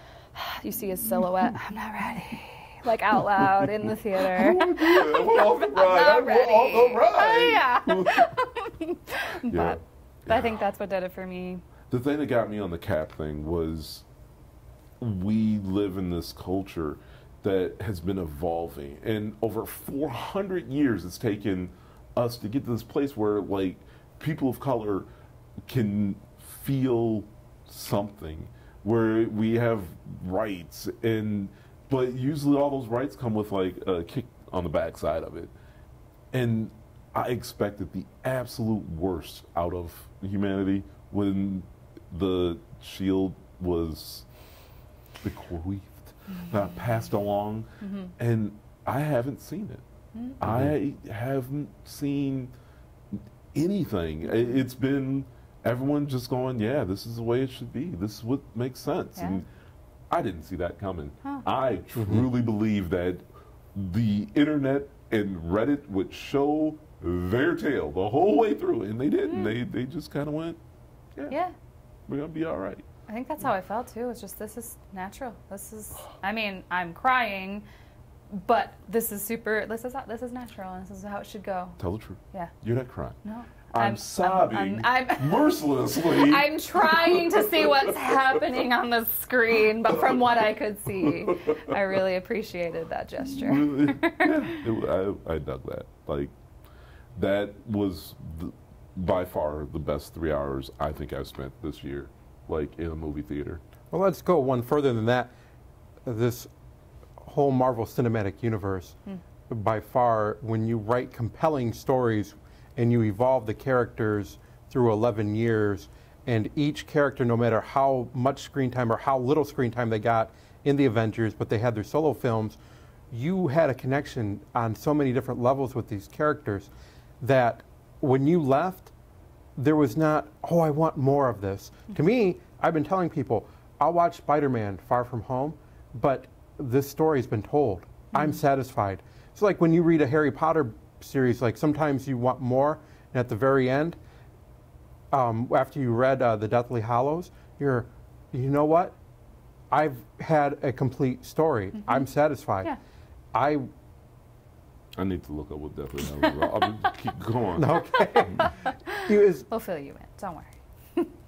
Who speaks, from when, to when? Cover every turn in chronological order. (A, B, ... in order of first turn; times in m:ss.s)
0:00.3-0:11.6 A
0:04.2-0:08.3 B
0:09.5-0:10.6 B
0:11.9-0:14.1 B
0:15.0-0:25.1 B
0:25.7-0:35.5 B
0:36.3-0:44.3 B
0:45.2-0:49.8 B
0:47.8-0:48.1 A
0:50.2-0:50.4 A
0:50.4-0:52.5 B
0:53.5-0:59.4 B
1:00.1-1:10.6 B
1:09.3-1:09.5 A
1:12.1-1:12.8 B
1:13.1-1:17.6 A
1:18.4-1:21.8 A
1:21.8-1:23.2 B
1:23.2-1:34.6 A
1:23.7-1:28.4 B
1:31.1-1:31.8 B
1:33.3-1:36.3 B
1:37.2-1:43.6 B
1:43.9-1:45.3 C
1:46.0-1:46.5 C
1:47.2-1:49.0 C
1:49.5-2:02.6 C
2:03.1-2:06.7 C
2:07.2-2:08.9 C
2:09.6-2:24.0 C
2:18.1-2:18.4 A
2:25.1-2:29.0 C
2:29.7-2:32.7 C
2:33.3-2:33.7 C
2:35.0-2:37.7 B
2:36.2-2:36.5 A
2:37.6-2:38.5 C
2:38.0-2:41.1 A
2:39.1-2:39.5 C